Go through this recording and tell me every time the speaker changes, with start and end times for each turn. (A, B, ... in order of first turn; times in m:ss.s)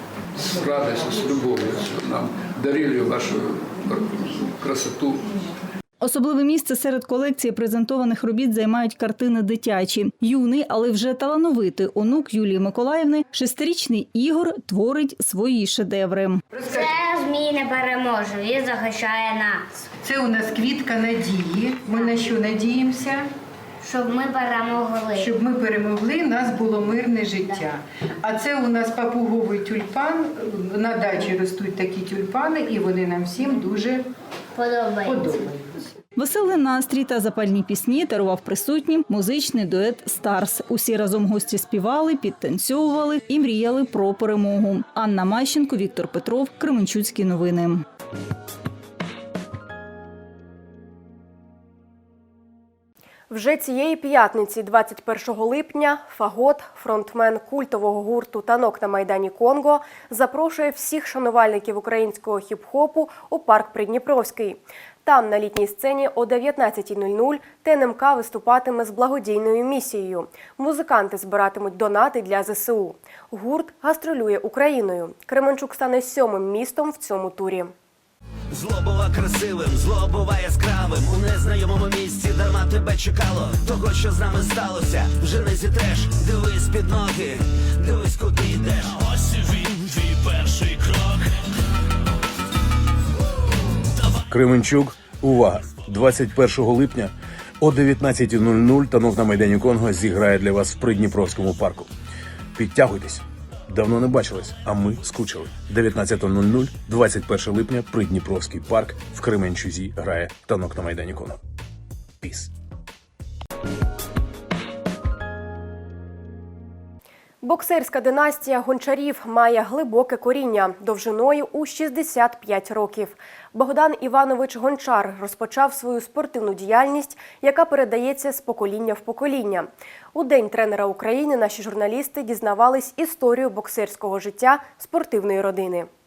0:00.4-0:05.2 A
0:06.0-0:16.4 B
0:16.5-0:16.9 C
0:16.7-0:19.6 D
0:20.0-0:23.3 C
0:23.8-0:25.3 D
0:25.2-0:34.1 C
0:34.6-0:35.3 D
0:35.0-0:35.6 C
0:36.2-0:47.8 B
0:53.3-1:17.7 E
1:18.5-1:29.4 F
1:34.3-1:41.9 G
1:42.6-1:51.4 G
1:52.2-1:52.5 G
1:57.4-2:15.9 E